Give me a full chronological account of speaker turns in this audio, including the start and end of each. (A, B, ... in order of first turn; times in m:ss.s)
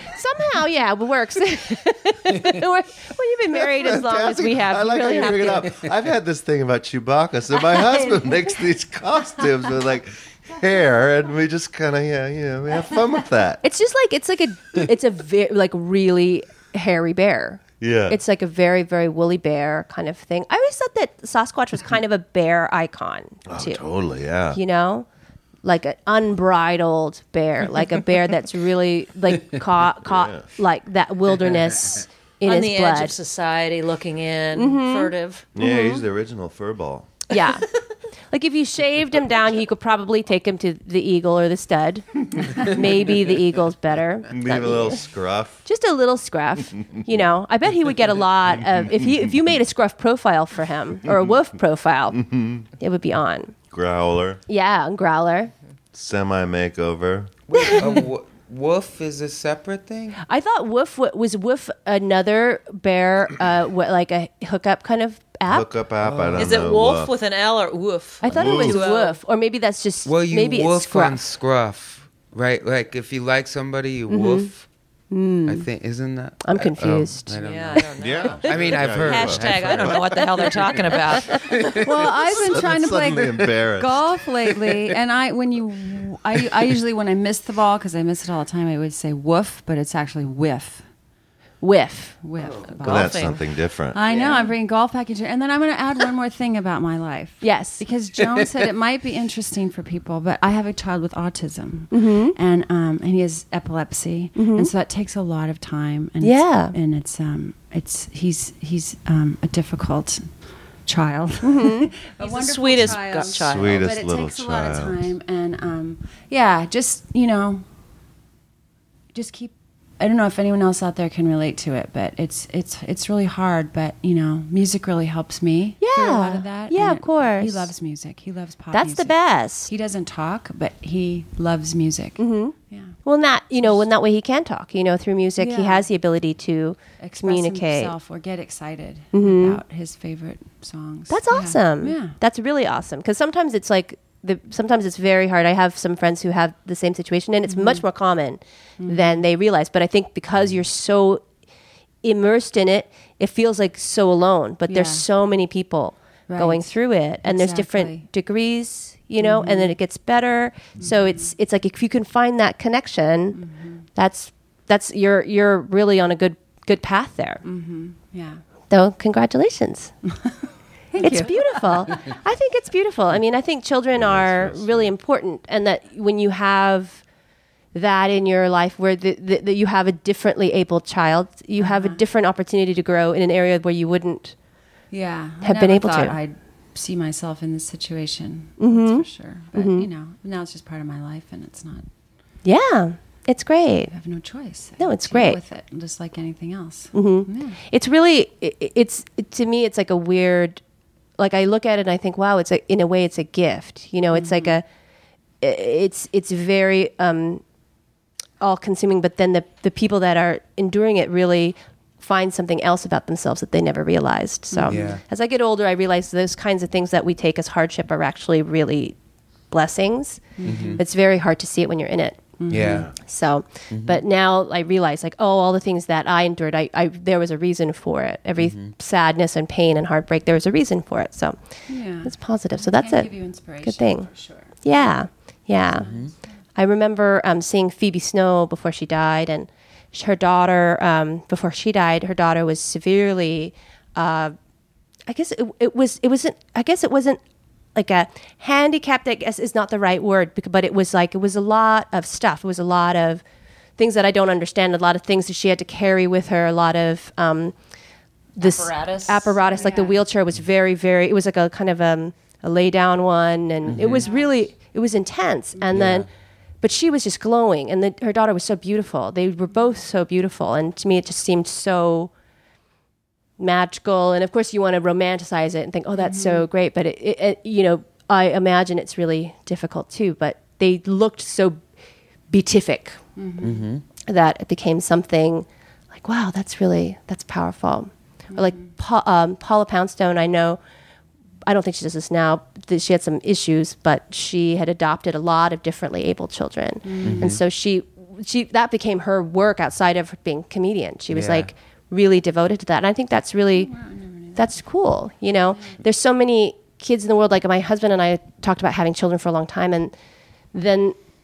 0:00.1-0:05.8 A
0:03.5-0:13.6 B
0:13.6-0:23.8 A
0:17.8-0:18.2 B
0:23.5-0:24.6 B
0:24.5-0:25.1 A
0:25.6-0:33.2 A
0:30.0-0:30.4 B
0:32.4-0:35.5 C
0:34.6-0:36.0 A
0:35.6-0:37.2 B
0:37.3-0:37.7 A
0:38.3-0:45.0 A
0:44.3-0:45.6 B
0:45.6-0:53.6 A
0:52.2-0:52.6 B
0:53.7-0:54.4 B
0:54.5-0:55.5 A
0:55.9-0:57.4 B
0:57.5-1:00.2 D
0:57.5-0:58.0 A
1:00.2-1:05.7 A
1:05.5-1:07.1 B
1:06.0-1:06.5 D
1:06.4-1:09.2 C
1:08.2-1:11.2 A
1:08.3-1:08.8 B
1:10.0-1:14.7 D
1:14.1-1:14.5 A
1:15.1-1:15.7 A
1:15.5-1:21.9 D
1:16.4-1:17.4 A
1:17.4-1:21.5 C
1:18.0-1:20.2 B
1:21.7-1:30.8 E
1:22.0-1:24.5 B
1:31.6-1:32.2 A
1:32.2-1:33.4 E
1:32.4-1:32.7 D
1:32.8-1:33.4 C
1:32.8-1:34.0 B
1:33.9-1:50.3 E
1:37.4-1:37.8 A
1:41.9-1:42.4 A
1:44.4-1:44.7 A
1:46.2-1:46.8 A
1:50.9-1:57.6 E
1:51.4-1:51.9 A
1:52.2-1:53.9 C
1:52.8-1:55.1 B
1:59.1-2:09.2 E
2:05.8-2:07.7 A
2:08.7-2:09.7 A
2:09.7-2:12.2 E
2:12.2-2:17.9 A
2:15.4-2:15.9 E
2:17.0-2:22.2 E
2:19.1-2:19.6 A
2:21.1-2:31.2 A
2:27.5-2:27.8 E
2:28.8-2:29.3 E
2:32.0-2:43.4 A
2:34.7-2:35.0 E
2:36.3-2:36.7 E
2:37.2-2:38.0 E
2:39.2-2:39.8 E
2:43.4-2:43.8 E
2:44.0-2:47.4 A
2:47.4-2:48.4 E
2:48.7-2:49.9 A
2:50.9-2:51.9 E
2:51.0-2:57.0 A
2:53.9-2:54.9 B
2:57.7-3:04.4 A
3:01.6-3:02.0 E
3:04.9-3:11.9 E
3:05.4-3:06.2 A
3:08.6-3:09.9 A
3:12.4-3:13.9 A
3:13.9-3:17.6 E
3:14.8-3:15.4 A
3:16.9-3:20.6 A
3:21.2-3:24.6 A
3:24.1-3:24.6 E
3:25.4-3:27.4 A
3:28.4-3:39.0 A
3:34.5-3:35.0 E
3:34.7-3:35.0 D
3:39.5-3:42.4 A
3:40.4-3:40.8 E
3:40.4-3:40.8 D
3:42.4-3:42.9 E
3:42.5-3:42.9 D
3:42.6-3:42.9 B
3:42.9-3:51.4 A
3:43.7-3:44.0 D
3:48.4-3:48.7 D
3:51.7-3:55.0 E
3:52.0-3:54.1 A
3:54.6-3:55.9 A
3:55.8-3:56.1 D
3:56.6-4:04.4 A
4:05.1-4:07.2 A
4:07.8-4:13.2 A
4:13.8-4:17.6 A
4:18.4-4:26.1 A
4:18.4-4:19.0 C
4:18.4-4:20.0 E
4:23.7-4:24.1 D
4:23.8-4:24.3 E
4:25.7-4:26.0 D
4:26.6-4:32.1 A
4:33.4-4:41.6 A
4:36.0-4:36.5 E
4:42.3-4:43.0 A
4:43.2-4:43.7 E
4:43.4-4:43.8 D
4:44.1-4:50.6 A
4:48.4-4:48.7 E
4:51.4-5:03.7 A
4:56.8-4:57.3 E
4:57.0-4:57.4 D
5:01.1-5:01.5 D
5:03.6-5:04.4 E
5:04.4-5:09.9 A
5:10.5-5:11.0 A